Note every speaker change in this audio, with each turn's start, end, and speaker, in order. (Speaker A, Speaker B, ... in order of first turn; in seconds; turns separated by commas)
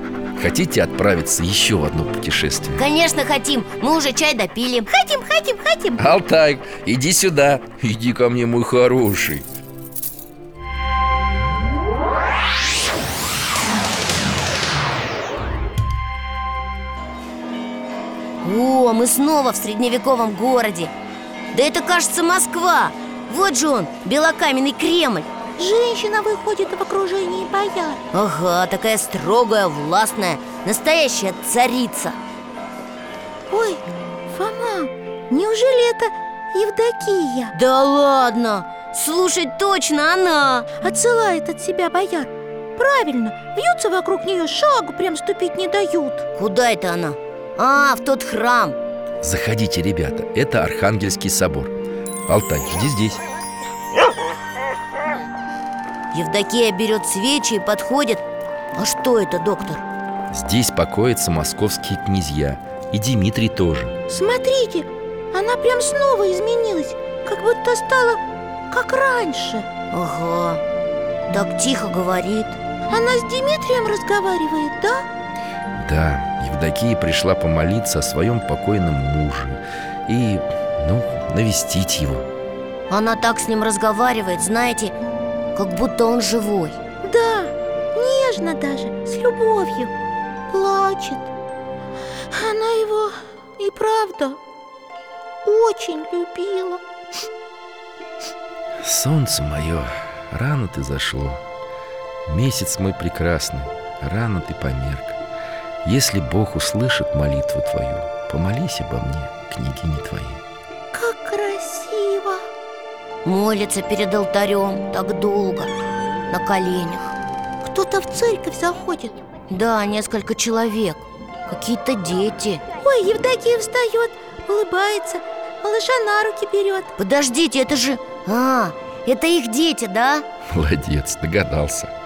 Speaker A: 0.4-2.8, Speaker B: 2.8-4.9, Speaker C: 4.9-6.0, Speaker A: 6.0-9.4, Speaker B: 18.4-20.9, Speaker B: 21.5-25.3, Speaker C: 25.6-28.0, Speaker B: 28.1-32.2, Speaker C: 33.5-37.5, Speaker B: 37.5-40.7, Speaker C: 40.8-46.2, Speaker B: 46.4-48.8, Speaker A: 49.2-51.7, Speaker A: 52.3-53.2, Speaker B: 56.1-58.2, Speaker B: 58.8-59.8, Speaker A: 60.3-63.9, Speaker C: 64.1-69.7, Speaker B: 69.9-70.6, Speaker B: 71.3-72.6, Speaker C: 72.9-75.0, Speaker A: 75.8-82.3, Speaker B: 82.9-84.9, Speaker B: 85.5-86.8, Speaker C: 87.0-89.9, Speaker C: 90.5-91.3, Speaker C: 92.3-94.4, Speaker C: 95.4-96.8, Speaker A: 98.8-101.4, Speaker A: 102.2-105.2, Speaker A: 105.8-110.4, Speaker C: 110.9-112.4, Speaker B: 113.2-115.7, Speaker B: 116.3-117.1, Speaker C: 117.6-119.2, Speaker B: 119.5-122.6, Speaker C: 122.8-126.9, Speaker B: 127.0-130.2, Speaker A: 130.5-131.9